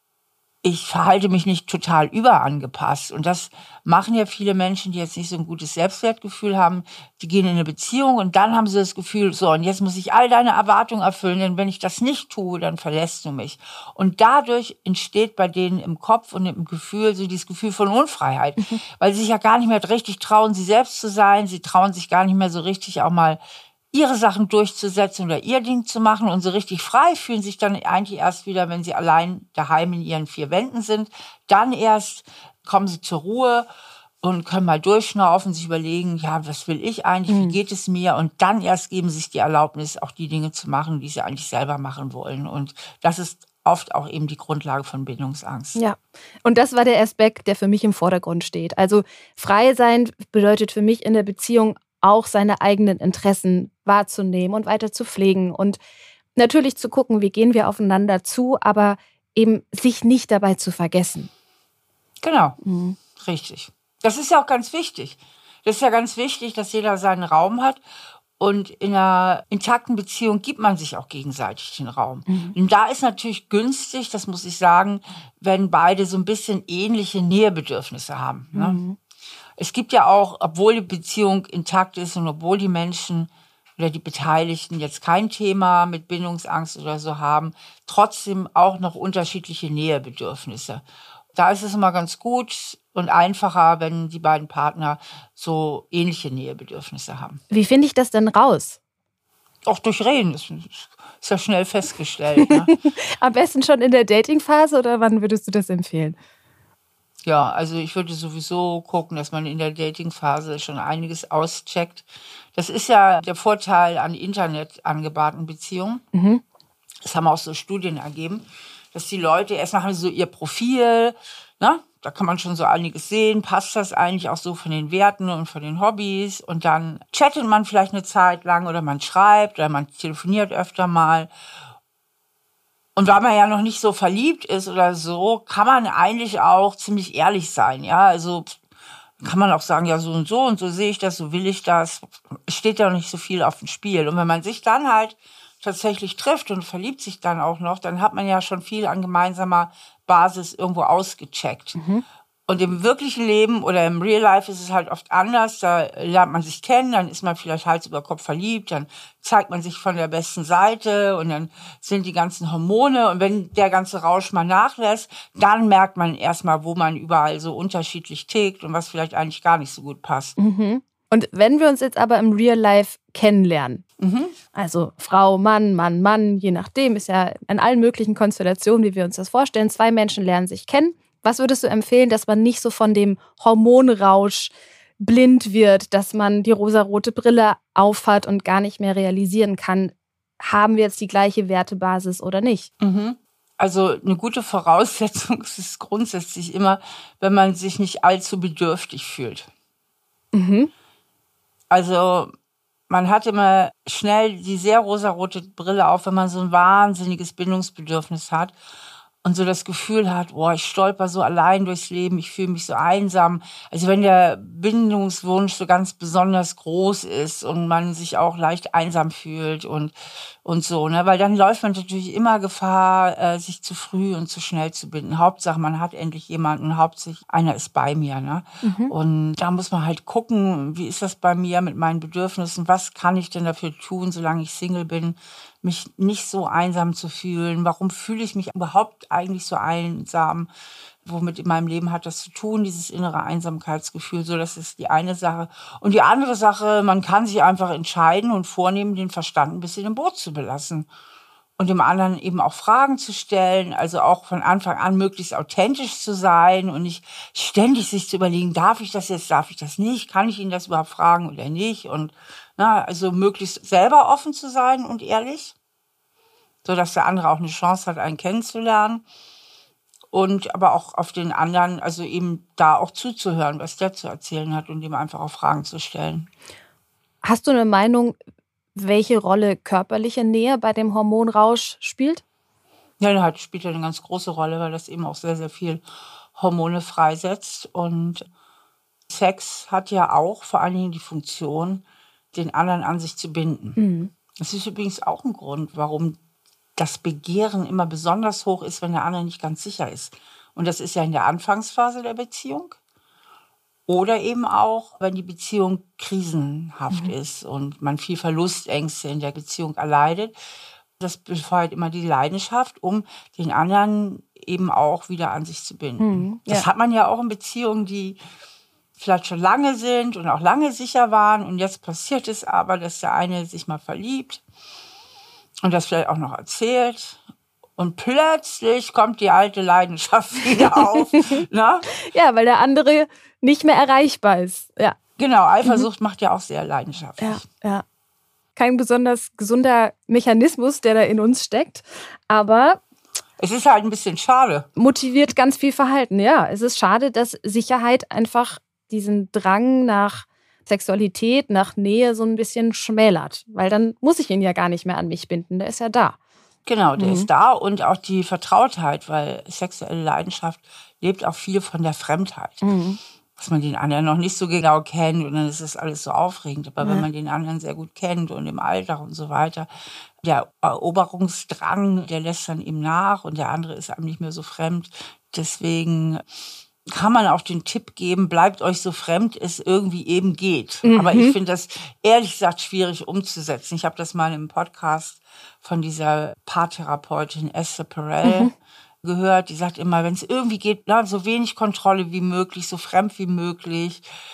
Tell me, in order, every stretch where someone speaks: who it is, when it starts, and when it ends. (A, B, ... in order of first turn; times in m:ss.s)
0:00.6-0:23.4 A
0:23.9-0:33.7 A
0:34.2-0:45.8 A
0:37.3-0:37.6 B
0:45.8-0:55.8 B
0:56.4-1:01.3 B
1:02.2-1:02.6 A
1:02.6-1:03.0 B
1:03.2-1:07.8 A
1:08.4-1:18.8 A
1:12.3-1:12.6 B
1:18.6-1:19.0 B
1:19.6-1:30.8 A
1:31.3-1:37.4 A
1:37.5-1:38.8 B
1:39.7-1:42.7 A
1:42.4-1:46.2 B
1:47.2-1:56.0 A
1:56.1-1:56.4 B
1:57.0-2:11.3 A
2:13.0-2:18.6 A
2:19.2-2:31.8 A
2:31.8-2:32.0 B
2:32.5-2:50.4 A
2:50.4-2:53.8 B
2:54.0-2:54.4 A
2:54.5-3:12.7 B
3:12.8-3:19.5 A
3:20.3-3:20.7 B
3:21.7-3:22.3 A
3:22.9-3:28.6 A
3:29.2-3:39.9 A
3:40.4-4:00.5 A
3:48.6-3:49.0 B
4:01.0-4:10.9 A
4:11.6-4:25.6 A
4:26.6-4:29.0 A
4:30.1-4:36.3 A
4:37.2-4:38.2 B
4:38.8-4:42.2 B
4:43.0-4:45.8 A
4:46.4-4:48.3 A
4:49.1-4:53.8 A
4:53.8-4:54.1 B
4:54.4-4:56.2 A
4:56.8-5:02.8 A
5:03.9-5:10.3 A
5:11.0-5:18.2 A
5:16.0-5:16.7 B
5:19.0-5:24.4 A
5:25.6-5:27.2 A
5:27.8-5:31.9 A
5:30.5-5:31.4 B
5:32.0-5:35.0 B
5:35.2-5:37.4 A
5:37.2-5:37.8 B
5:38.6-5:42.8 B
5:43.4-5:44.7 A
5:44.8-5:56.2 B
5:56.7-6:02.6 A
5:57.0-5:57.3 B
6:02.6-6:03.0 B
6:03.4-6:09.7 A
6:10.2-6:16.2 A
6:16.9-6:28.5 A
6:20.8-6:21.4 B
6:28.2-6:28.5 B
6:29.0-6:34.0 A